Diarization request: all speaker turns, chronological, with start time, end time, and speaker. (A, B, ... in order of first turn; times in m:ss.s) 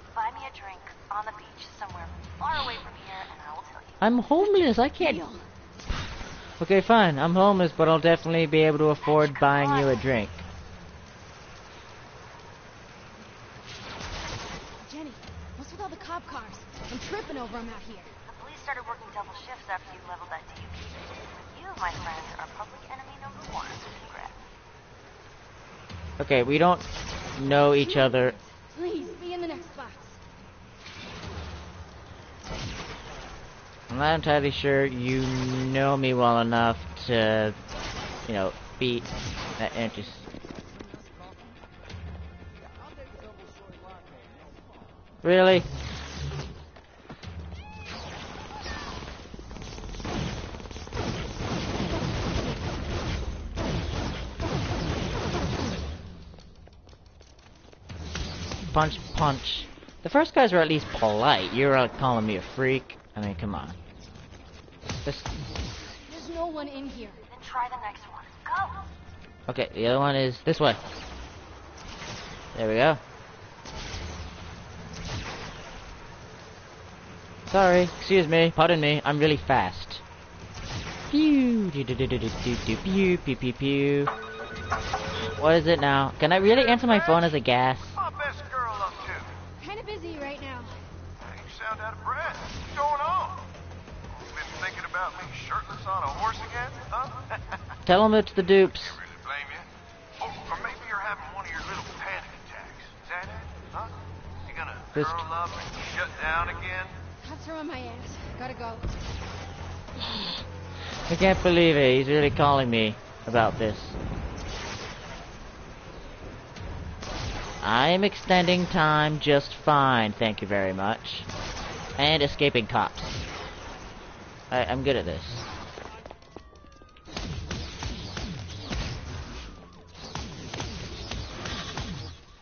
0:00.1-0:04.0 A
0:04.0-0:05.3 B
0:04.5-0:05.4 C
0:06.6-0:10.5 B
0:09.0-0:10.1 A
0:14.8-0:18.1 C
0:18.2-0:24.4 A
0:26.2-0:28.4 B
0:27.8-0:30.2 C
0:33.9-0:37.6 B
0:38.3-0:40.3 B
0:45.2-0:45.7 B
0:58.7-1:03.8 B
1:05.0-1:05.3 B
1:06.1-1:07.2 C
1:07.2-1:08.9 A
1:09.5-1:10.8 B
1:12.5-1:13.0 B
1:17.5-1:20.0 B
1:21.1-1:24.1 B
1:25.4-1:28.0 B
1:26.4-1:27.4 D
1:27.9-1:29.4 D
1:29.6-1:30.8 C
1:31.2-1:33.5 D
1:34.1-1:37.7 D
1:37.9-1:39.0 B
1:38.7-1:39.7 D
1:40.2-1:47.0 D
1:45.0-1:45.2 B
1:47.2-1:49.0 C
1:51.1-1:54.0 B
1:57.6-2:01.3 B
2:02.0-2:03.2 B
2:04.5-2:05.5 B